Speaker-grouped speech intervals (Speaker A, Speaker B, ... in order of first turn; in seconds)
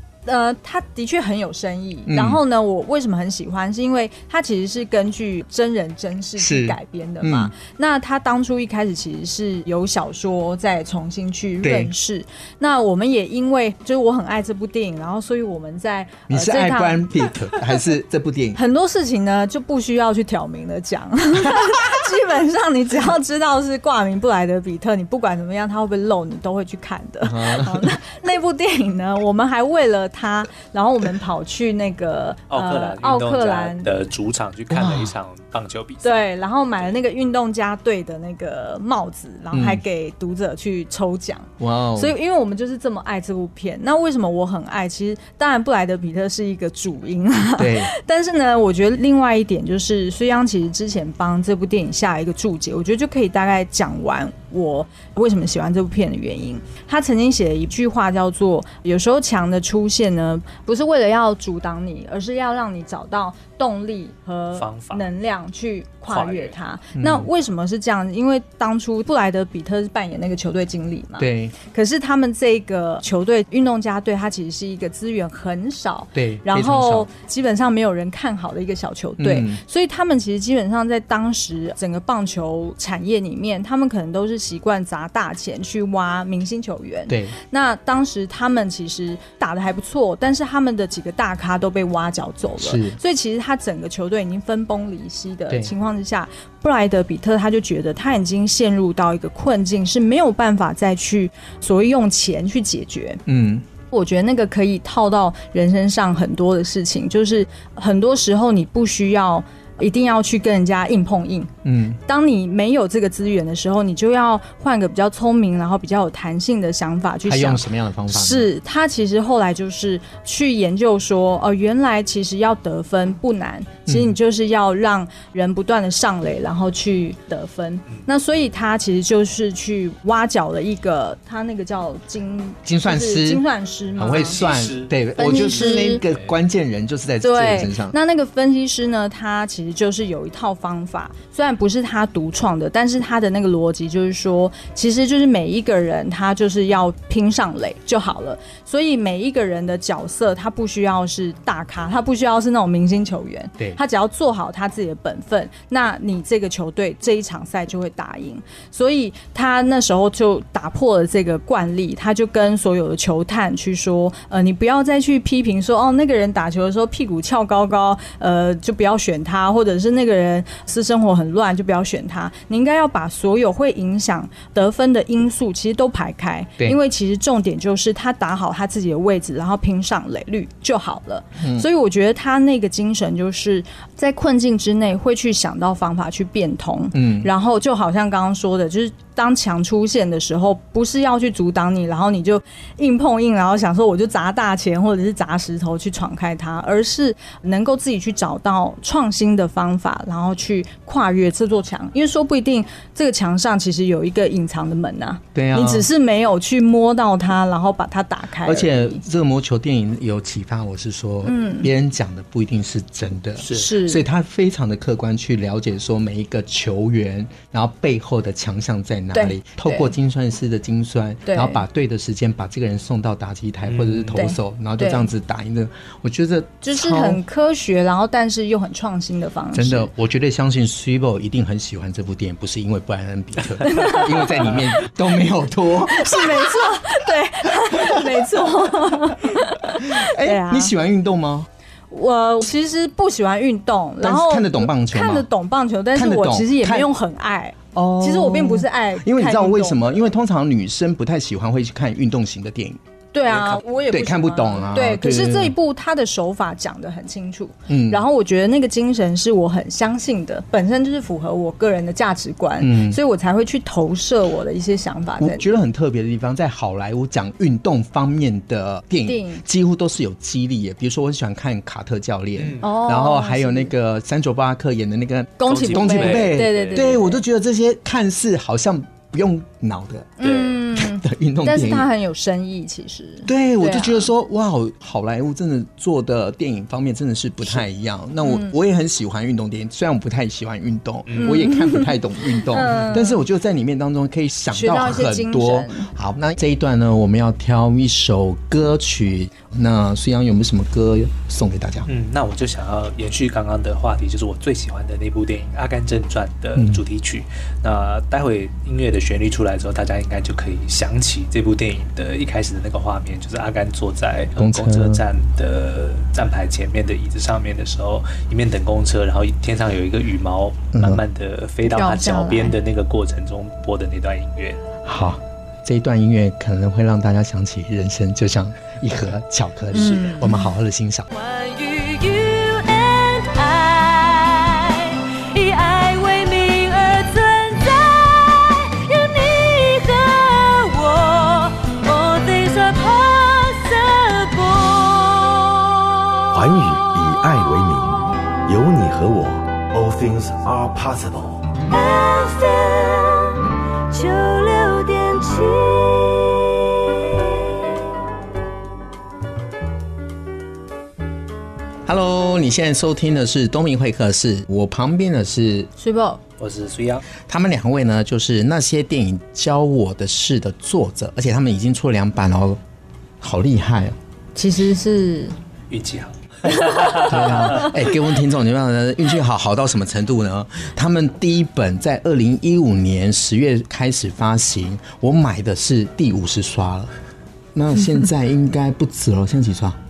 Speaker A: 0.2-17.3, 18.5-33.9, 36.0-103.2, 103.9-134.4, 135.2-136.0, 137.2-209.0, 211.2-211.7, 213.4-214.0, 219.1-219.9, 221.2-221.6, 224.1-225.1, 226.6-229.9, 233.6-234.3, 235.9-240.7, 241.9-249.8, 253.1-265.5, 269.1-269.4, 272.6-273.7, 275.4-277.2, 280.2-284.1, 288.2-288.5, 291.2-293.2, 294.5-295.9, 321.6-322.6, 329.7-330.5, 365.8-366.2, 374.3-375.3
Speaker B: 2.1-2.4, 6.4-7.5, 11.6-11.9, 16.3-18.6, 27.2-27.9, 34.7-35.1, 39.5-39.8, 41.6-42.1, 47.6-47.9, 67.0-67.3, 71.2-71.5, 76.1-77.1, 79.2-79.6, 87.1-87.3, 92.6-93.0, 103.3-103.7, 111.6-112.0, 117.2-118.5, 123.8-124.2, 132.6-133.4, 134.0-137.9, 181.4-181.7, 186.9-187.3, 205.3-205.9, 208.4-227.2, 229.5-236.8, 237.7-239.0, 239.8-241.5, 244.0-245.3, 245.9-246.9, 247.7-252.8, 253.3-255.5, 257.7-258.0, 262.6-263.0, 265.2-280.2, 280.8-281.9, 283.2-301.9, 306.6-306.8, 314.4-315.0, 320.7-321.0, 324.8-331.1, 361.9-365.7, 367.2-372.6, 373.2-373.9, 377.1-386.9, 387.5-389.8
Speaker C: 32.5-36.2, 64.5-65.0, 66.1-66.5, 134.0-136.4, 223.7-224.2, 272.4-272.7, 275.5-277.0, 280.2-280.6, 291.1-291.5, 301.9-324.6, 366.4-367.0, 375.7-377.9
Speaker D: 331.1-345.6, 351.7-357.5
Speaker E: 346.3-351.5